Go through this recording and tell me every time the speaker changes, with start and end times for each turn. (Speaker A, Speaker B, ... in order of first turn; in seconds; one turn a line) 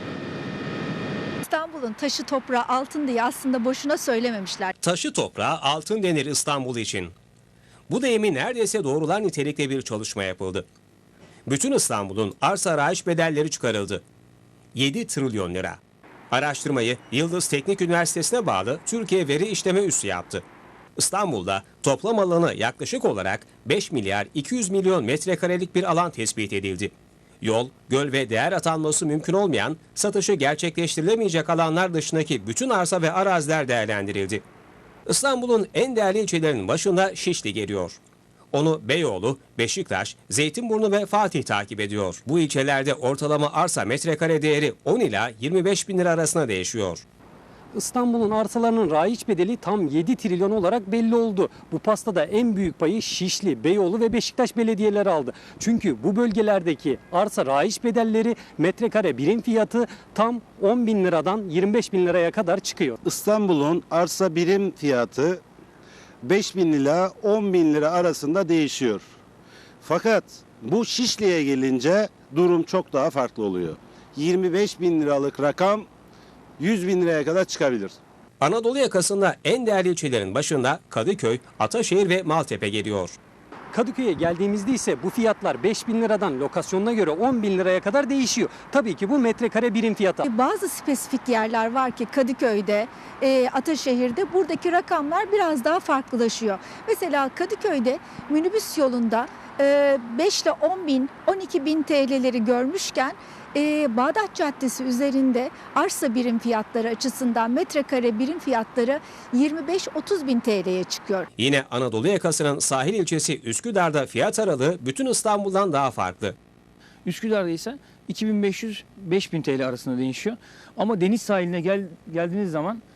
Speaker A: 1.4-4.7
Speaker B: 4.8-7.1
Speaker B: 7.9-10.7
Speaker B: 11.4-14.0
Speaker B: 14.7-15.8
Speaker B: 16.3-20.4
Speaker B: 21.0-34.4
Speaker B: 35.1-38.0
Speaker B: 38.5-47.0
Speaker C: 47.7-63.0
Speaker D: 63.0-65.4
Speaker D: 66.2-69.0
Speaker D: 69.8-75.9
Speaker D: 76.6-78.0
Speaker B: 78.4-83.2
Speaker C: 83.7-90.2
Speaker A: 90.2-111.3
Speaker B: 111.4-116.3
Speaker E: 117.0-122.8